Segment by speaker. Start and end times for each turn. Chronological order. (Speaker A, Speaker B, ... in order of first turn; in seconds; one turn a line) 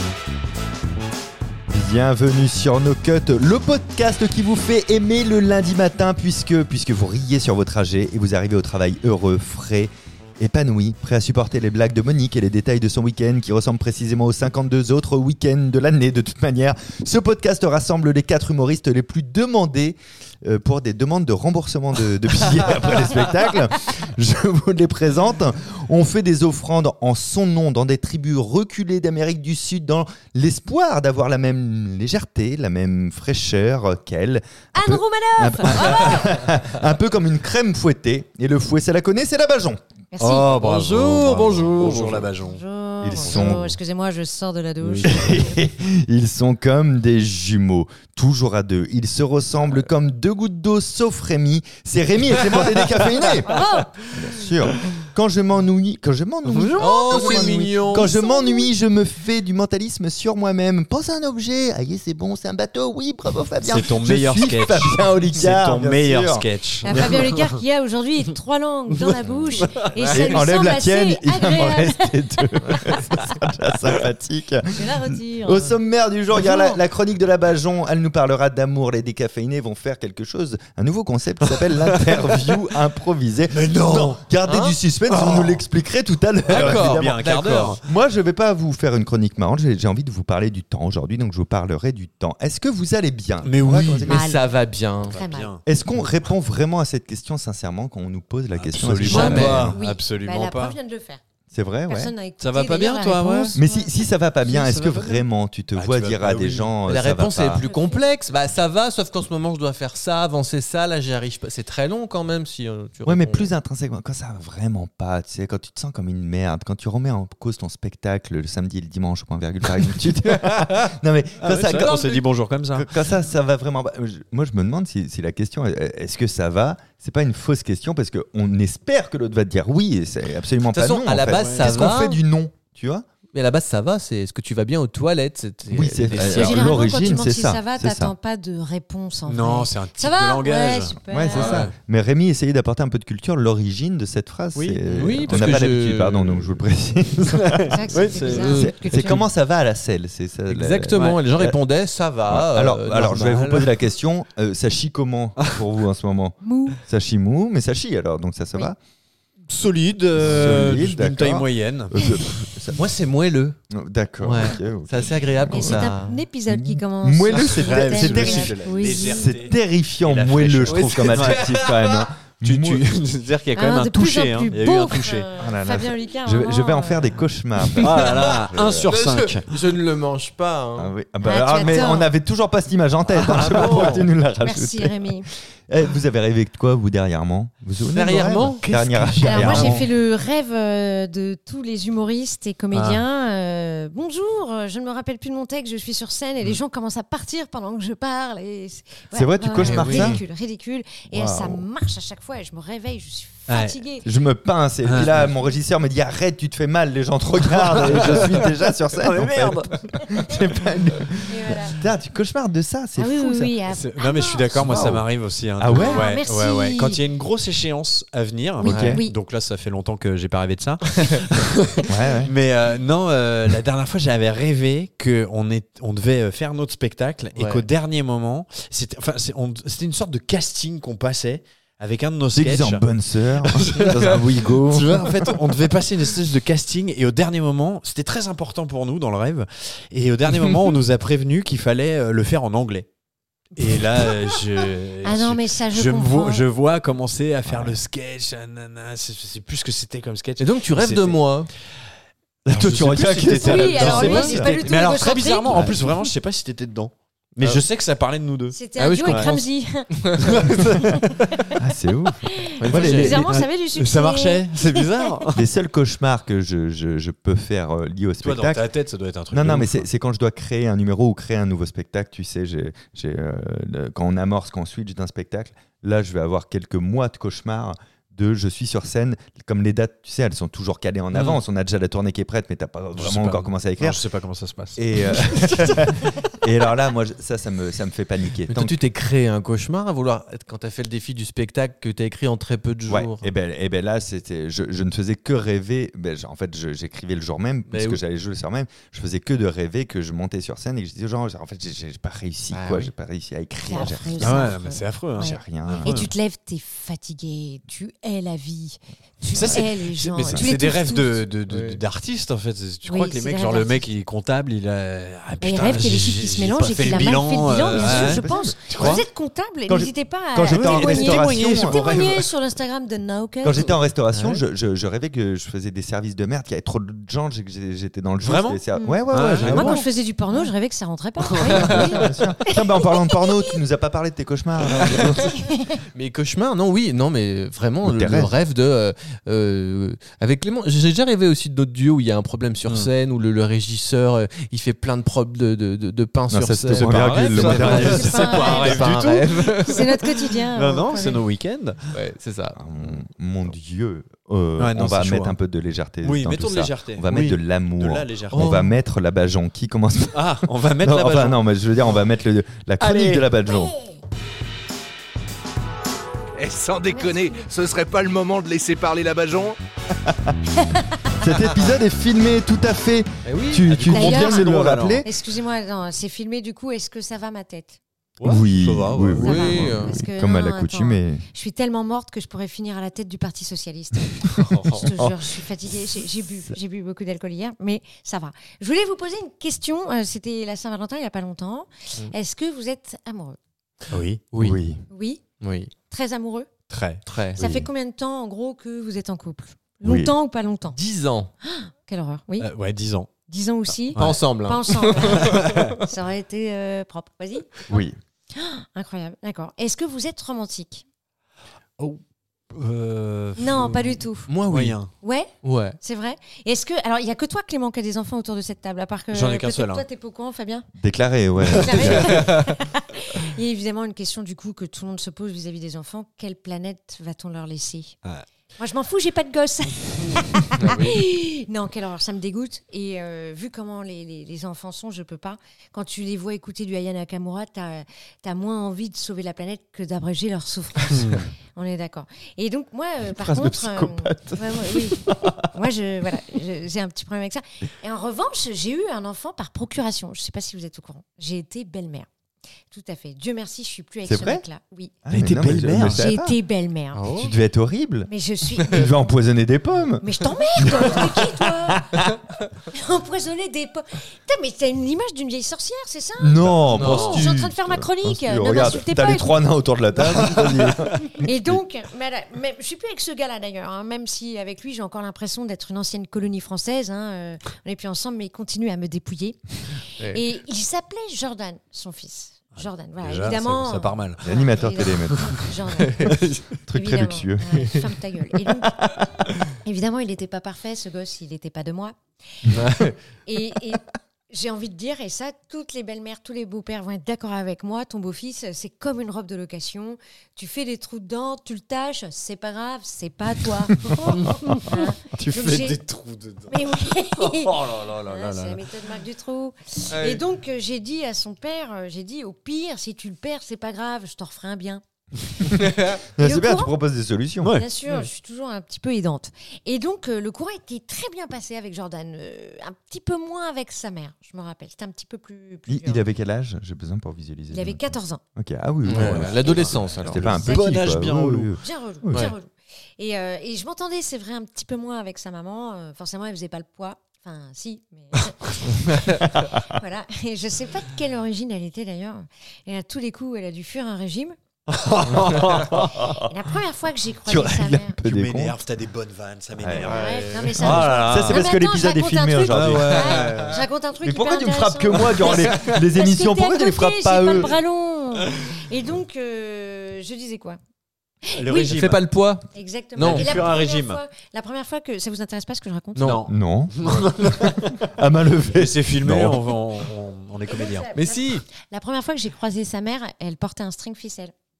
Speaker A: 1.7-39.8
Speaker B: 34.7-36.5
Speaker B: 40.1-40.6
Speaker C: 40.2-42.6
Speaker D: 40.4-42.3
Speaker B: 42.3-45.6
Speaker A: 43.0-43.8
Speaker C: 43.2-43.7
Speaker C: 44.8-45.4
Speaker A: 45.0-53.6
Speaker B: 53.4-54.2
Speaker A: 54.1-67.2
Speaker C: 56.5-56.9
Speaker D: 56.8-58.1
Speaker B: 57.1-58.7
Speaker C: 63.6-67.6
Speaker B: 66.8-73.3
Speaker C: 69.0-69.8
Speaker D: 70.0-70.4
Speaker A: 70.1-94.2
Speaker B: 74.7-75.8
Speaker B: 76.3-76.8
Speaker C: 81.5-82.5
Speaker C: 83.5-84.2
Speaker D: 84.5-84.8
Speaker C: 85.1-85.6
Speaker C: 86.5-87.8
Speaker D: 86.5-87.8
Speaker C: 93.4-94.3
Speaker D: 94.0-95.2
Speaker B: 94.0-94.5
Speaker C: 95.0-96.0
Speaker B: 95.1-95.5
Speaker A: 95.6-99.8
Speaker C: 98.5-100.8
Speaker D: 99.0-99.7
Speaker B: 99.0-101.2
Speaker A: 101.5-102.1
Speaker B: 101.9-103.9
Speaker C: 102.4-103.6
Speaker A: 103.5-107.6
Speaker C: 104.4-106.7
Speaker D: 106.8-113.5
Speaker B: 107.6-108.0
Speaker A: 113.0-133.1
Speaker C: 120.3-122.9
Speaker D: 130.7-132.2
Speaker C: 131.2-131.9
Speaker D: 133.3-136.7
Speaker A: 135.7-138.1
Speaker B: 136.2-141.7
Speaker C: 139.2-141.7
Speaker A: 141.1-151.6
Speaker C: 144.5-145.6
Speaker D: 144.9-146.4
Speaker C: 147.4-149.1
Speaker B: 147.7-149.2
Speaker D: 148.2-149.2
Speaker D: 150.5-153.7
Speaker C: 151.0-151.2
Speaker A: 152.3-158.8
Speaker B: 156.4-156.8
Speaker C: 159.5-162.1
Speaker A: 160.2-162.8
Speaker D: 162.8-163.6
Speaker A: 163.7-165.9
Speaker D: 164.2-166.2
Speaker B: 165.5-169.4
Speaker A: 166.5-172.8
Speaker C: 167.3-171.7
Speaker D: 170.7-172.0
Speaker C: 172.4-175.3
Speaker B: 173.5-177.1
Speaker A: 175.4-178.9
Speaker C: 177.8-179.5
Speaker D: 178.9-180.9
Speaker A: 180.8-185.1
Speaker B: 181.2-182.1
Speaker C: 183.2-184.1
Speaker D: 183.3-184.1
Speaker B: 184.4-185.3
Speaker A: 185.7-189.8
Speaker D: 187.9-189.8
Speaker C: 188.6-189.8
Speaker B: 189.2-204.1
Speaker C: 192.7-193.0
Speaker A: 199.1-200.2
Speaker D: 199.5-200.2
Speaker A: 201.1-201.6
Speaker C: 203.5-203.8
Speaker A: 204.0-213.5
Speaker C: 204.8-205.3
Speaker C: 207.4-210.0
Speaker B: 211.2-211.8
Speaker B: 212.9-214.9
Speaker C: 213.7-232.9
Speaker A: 214.6-215.1
Speaker A: 215.6-216.0
Speaker B: 215.7-217.0
Speaker B: 218.6-219.2
Speaker A: 218.7-219.0
Speaker D: 218.7-219.0
Speaker A: 221.9-222.3
Speaker D: 227.3-227.7
Speaker A: 232.3-235.2
Speaker C: 233.4-242.9
Speaker C: 243.6-251.2
Speaker B: 245.0-246.4
Speaker A: 247.5-247.8
Speaker D: 250.4-251.5
Speaker A: 252.4-254.6
Speaker C: 252.5-259.3
Speaker B: 253.3-255.9
Speaker A: 255.5-256.1
Speaker B: 258.5-261.5
Speaker D: 258.8-259.4
Speaker D: 259.9-260.6
Speaker C: 260.2-260.7
Speaker A: 261.5-263.4
Speaker B: 262.2-265.1
Speaker D: 262.6-263.2
Speaker C: 262.8-265.4
Speaker A: 265.3-268.6
Speaker C: 268.2-269.9
Speaker A: 269.3-284.0
Speaker C: 283.0-285.8
Speaker A: 284.8-288.8
Speaker B: 285.3-285.8
Speaker D: 288.5-293.3
Speaker A: 292.9-304.6
Speaker D: 297.7-298.0
Speaker D: 302.5-302.9
Speaker B: 303.6-311.2
Speaker C: 303.9-306.1
Speaker A: 305.1-306.0
Speaker C: 309.3-319.0
Speaker D: 311.5-311.8
Speaker B: 312.8-313.8
Speaker B: 315.4-323.7
Speaker A: 316.8-319.0
Speaker A: 319.7-322.3
Speaker C: 320.5-322.2
Speaker A: 323.4-329.8
Speaker C: 328.2-329.9
Speaker B: 328.7-333.5
Speaker C: 331.4-331.9
Speaker A: 331.4-335.4
Speaker D: 331.5-332.0
Speaker B: 335.2-335.8
Speaker D: 335.9-350.0
Speaker A: 337.8-338.3
Speaker A: 346.3-348.3
Speaker C: 346.7-349.8
Speaker B: 347.5-351.2
Speaker C: 350.5-351.8
Speaker D: 351.9-352.6
Speaker A: 352.5-363.7
Speaker C: 354.6-355.3
Speaker C: 356.0-358.6
Speaker D: 358.3-358.7
Speaker C: 360.1-361.4
Speaker C: 362.8-363.3
Speaker B: 363.4-364.0
Speaker E: 366.4-369.6
Speaker B: 366.9-367.4
Speaker A: 370.0-370.4
Speaker B: 370.5-371.2
Speaker A: 371.1-375.1
Speaker D: 373.2-373.7
Speaker C: 373.4-375.1
Speaker B: 373.9-377.8
Speaker C: 378.2-379.5
Speaker A: 378.2-381.2
Speaker D: 379.1-379.9
Speaker B: 379.2-393.4
Speaker A: 384.3-385.2
Speaker C: 384.4-384.9
Speaker C: 393.9-394.2
Speaker D: 394.3-394.6
Speaker A: 394.4-394.8
Speaker B: 394.9-395.2
Speaker D: 395.4-395.7
Speaker B: 395.9-396.5
Speaker C: 396.7-397.0
Speaker D: 397.0-397.5
Speaker B: 397.4-400.8
Speaker A: 399.8-400.1
Speaker D: 400.7-401.3
Speaker B: 401.4-402.5
Speaker C: 402.4-403.1
Speaker B: 403.3-407.7
Speaker C: 403.9-404.2
Speaker D: 403.9-405.7
Speaker C: 405.1-405.8
Speaker A: 407.7-408.0
Speaker B: 408.3-410.8
Speaker C: 412.5-414.9
Speaker B: 413.4-414.3
Speaker D: 414.3-414.8
Speaker B: 415.0-420.7
Speaker D: 415.4-415.8
Speaker C: 419.1-419.8
Speaker A: 420.8-422.3
Speaker B: 421.5-428.0
Speaker C: 421.5-422.1
Speaker B: 428.6-452.1
Speaker D: 430.6-430.9
Speaker C: 440.9-441.3
Speaker A: 443.0-445.5
Speaker B: 452.7-454.9
Speaker A: 454.1-454.4
Speaker A: 455.0-456.4
Speaker C: 455.1-456.0
Speaker B: 455.9-457.0
Speaker D: 456.9-457.3
Speaker A: 457.1-458.1
Speaker B: 458.1-458.9
Speaker A: 458.6-462.1
Speaker B: 460.0-462.0
Speaker B: 462.7-469.4
Speaker A: 466.2-471.6
Speaker D: 466.7-467.2
Speaker C: 470.0-470.4
Speaker B: 471.1-489.0
Speaker C: 482.6-484.2
Speaker A: 484.2-485.5
Speaker A: 486.6-487.8
Speaker B: 489.5-492.5
Speaker D: 492.5-492.9
Speaker B: 493.2-505.8
Speaker A: 503.8-504.5
Speaker C: 504.2-508.6
Speaker B: 506.5-514.8
Speaker D: 509.9-510.2
Speaker B: 515.3-516.7
Speaker A: 515.6-517.6
Speaker C: 517.4-517.7
Speaker B: 517.4-526.0
Speaker A: 525.7-532.3
Speaker B: 527.5-528.2
Speaker D: 528.8-530.2
Speaker C: 528.9-531.6
Speaker B: 530.2-530.7
Speaker B: 531.6-544.4
Speaker D: 538.9-539.2
Speaker C: 544.7-546.0
Speaker A: 545.7-546.2
Speaker B: 545.9-548.0
Speaker A: 547.2-548.6
Speaker C: 548.0-551.5
Speaker A: 549.5-550.0
Speaker B: 549.8-560.6
Speaker D: 549.9-550.5
Speaker A: 550.6-557.6
Speaker C: 552.5-553.6
Speaker C: 561.3-562.0
Speaker D: 561.5-563.4
Speaker B: 562.5-566.2
Speaker C: 563.0-564.0
Speaker D: 565.9-566.2
Speaker C: 566.0-567.9
Speaker A: 566.3-569.6
Speaker C: 568.5-570.9
Speaker B: 570.5-574.3
Speaker D: 570.9-571.4